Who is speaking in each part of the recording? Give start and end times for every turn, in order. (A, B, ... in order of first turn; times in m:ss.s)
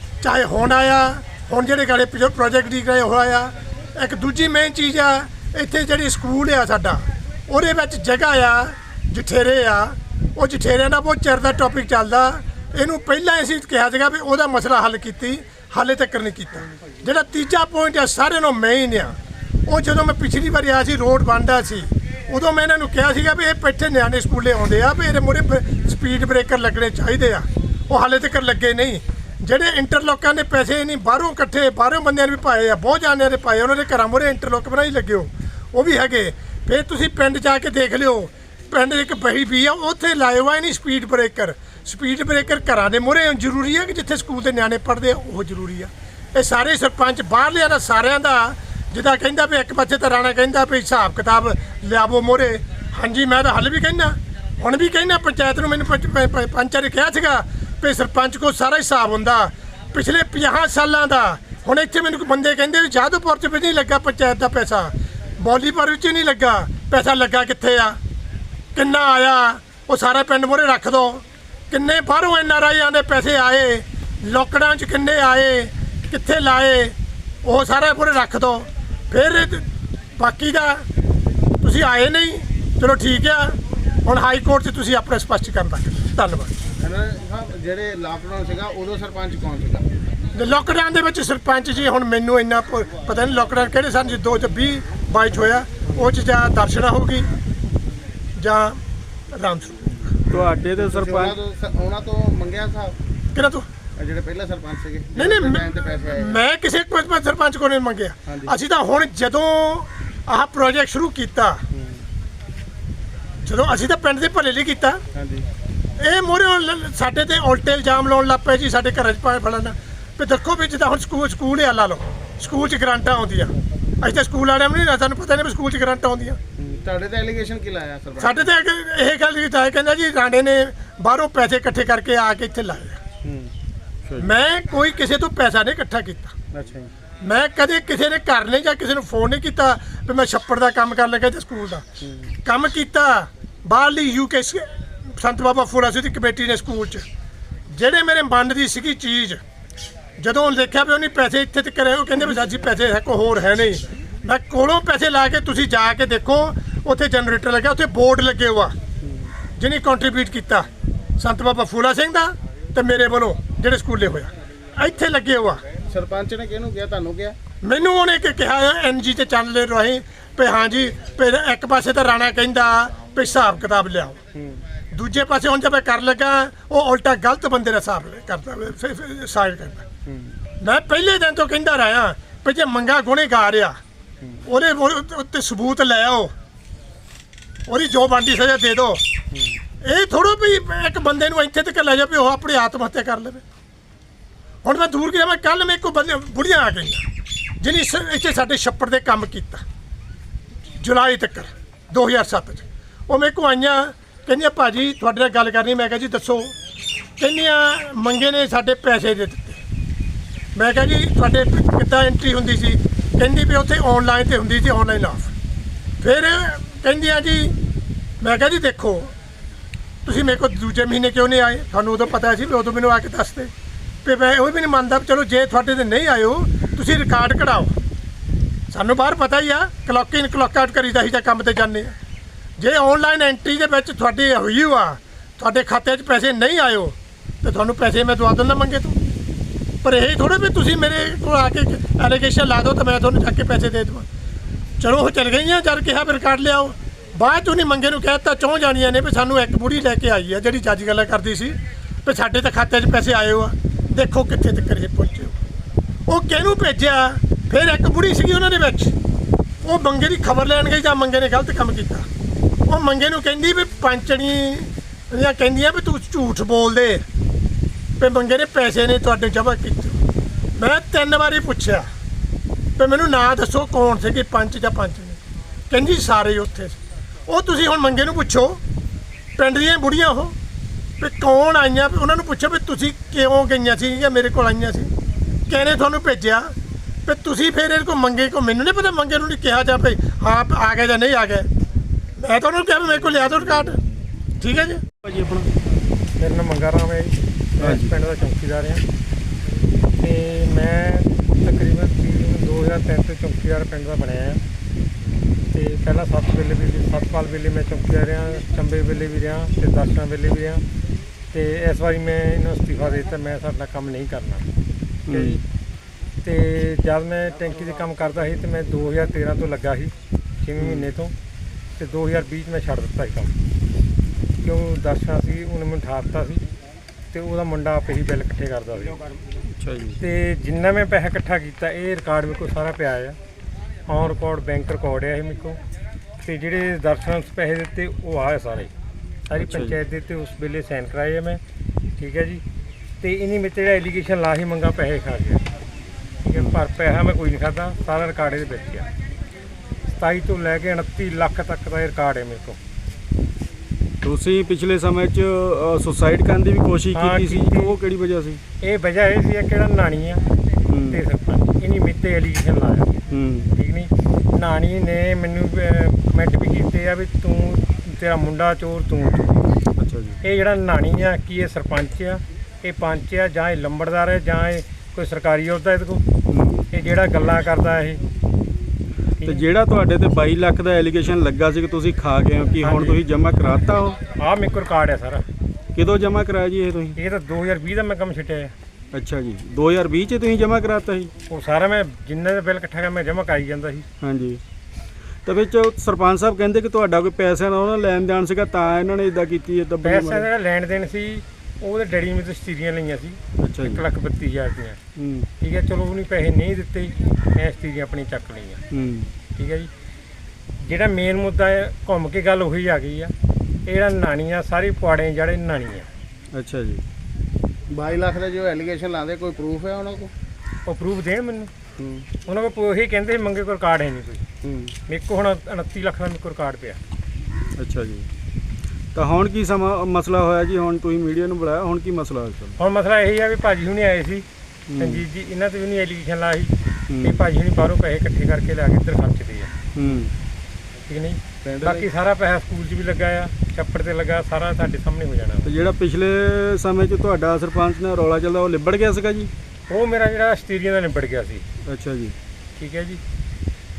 0:00.2-1:08.0 A
1:08.7-1:20.8 A
1:21.6-1:26.5 A
1:26.8-1:29.9 B
1:30.3-1:37.3 A
1:38.4-1:38.8 A
1:39.3-1:40.1 A
1:40.3-1:41.4 C
1:40.3-1:43.0 B
1:43.3-1:43.6 A
1:44.0-1:46.4 B
1:45.2-1:45.6 A
1:46.2-1:51.6 A
1:48.3-1:48.5 B
1:51.7-1:52.0 B
1:53.4-1:55.0 A
1:55.1-1:55.5 B
1:56.0-2:06.4 A
2:06.6-2:08.5 B
2:08.2-2:13.0 A
2:13.2-2:13.5 B
2:14.2-2:16.3 A
2:16.5-2:16.9 B
2:17.2-2:21.8 A
2:22.0-2:22.3 B
2:22.4-2:27.0 A
2:27.7-2:29.4 A
2:30.2-2:38.7 A
2:39.0-2:39.3 B
2:39.6-2:40.7 A
2:41.2-2:45.6 A
2:45.9-2:47.4 B
2:47.6-2:54.2 A
2:54.3-2:54.6 B
2:54.9-2:59.8 A
3:00.0-3:00.4 B
3:00.6-3:03.8 A
3:04.2-3:04.5 B
3:04.4-3:06.3 A
3:07.7-3:09.0 A
3:09.3-3:09.6 B
3:09.8-3:13.4 A
3:14.6-3:17.0 A
3:17.6-3:19.6 A
3:20.8-3:26.5 A
3:27.2-3:29.6 A
3:30.6-3:35.3 A
3:36.0-3:37.6 A
3:38.2-3:39.1 A
3:40.0-3:43.5 A
3:44.0-3:47.7 A
3:48.7-3:51.9 A
3:52.6-3:59.0 A
3:59.8-4:04.0 A
4:04.8-4:15.4 A
4:16.1-4:18.9 A
4:19.6-4:22.1 A
4:22.7-4:27.0 A
4:28.0-4:30.0 A
4:30.6-4:31.8 A
4:32.8-4:35.2 A
4:35.7-4:38.6 A
4:39.4-4:40.3 A
4:41.0-4:44.9 A
4:45.5-4:46.5 A
4:47.0-4:51.5 A
4:52.2-4:53.8 A
4:54.4-4:54.8 A
4:55.0-4:55.5 C
4:56.2-4:58.8 D
4:57.6-4:57.9 C
5:00.0-5:04.4 D
5:05.4-5:10.6 D
5:11.3-5:14.5 D
5:15.1-5:15.4 C
5:15.1-5:15.4 D
5:16.2-5:21.1 D
5:20.6-5:20.9 C
5:21.8-5:23.3 D
5:24.4-5:26.4 D
5:27.1-5:29.0 D
5:29.6-5:30.0 C
5:30.0-5:33.2 D
5:33.9-5:35.6 D
5:36.2-5:38.7 D
5:39.3-5:41.4 D
5:39.4-5:39.8 C
5:42.0-5:42.4 D
5:43.0-5:45.4 D
5:46.2-5:48.9 D
5:46.3-5:46.6 C
5:49.9-5:52.6 D
5:54.0-5:58.4 C
5:56.9-5:57.7 D
5:58.6-6:00.2 D
6:00.7-6:01.0 C
6:00.9-6:03.0 D
6:03.1-6:03.5 C
6:03.6-6:09.5 D
6:09.8-6:10.2 C
6:10.2-6:16.0 D
6:16.3-6:16.7 C
6:16.7-6:18.0 D
6:19.2-6:19.4 D
6:19.2-6:24.0 C
6:22.6-6:23.0 D
6:24.2-6:25.2 D
6:25.7-6:27.0 C
6:27.0-6:28.5 D
6:28.9-6:31.1 C
6:31.3-6:33.8 D
6:34.0-6:34.4 C
6:35.2-6:40.3 C
6:39.8-6:44.8 D
6:43.4-6:43.8 C
6:45.0-6:45.3 C
6:45.4-6:48.6 D
6:48.7-6:49.1 C
6:49.4-6:49.7 D
6:50.6-6:53.1 D
6:53.6-6:55.9 D
6:56.3-6:56.8 C
6:57.7-7:00.1 B
7:00.6-7:01.5 D
7:01.8-7:02.1 B
7:02.2-7:04.2 D
7:04.4-7:04.7 B
7:04.9-7:06.8 D
7:07.6-7:08.1 C
7:08.9-7:12.5 C
7:12.6-7:14.2 D
7:14.7-7:15.0 C
7:14.8-7:19.5 D
7:16.9-7:17.2 C
7:19.7-7:20.1 C
7:20.9-7:25.5 D
7:21.5-7:21.8 B
7:25.4-7:29.3 C
7:29.7-7:31.4 D
7:31.6-7:32.2 C
7:32.6-7:33.0 D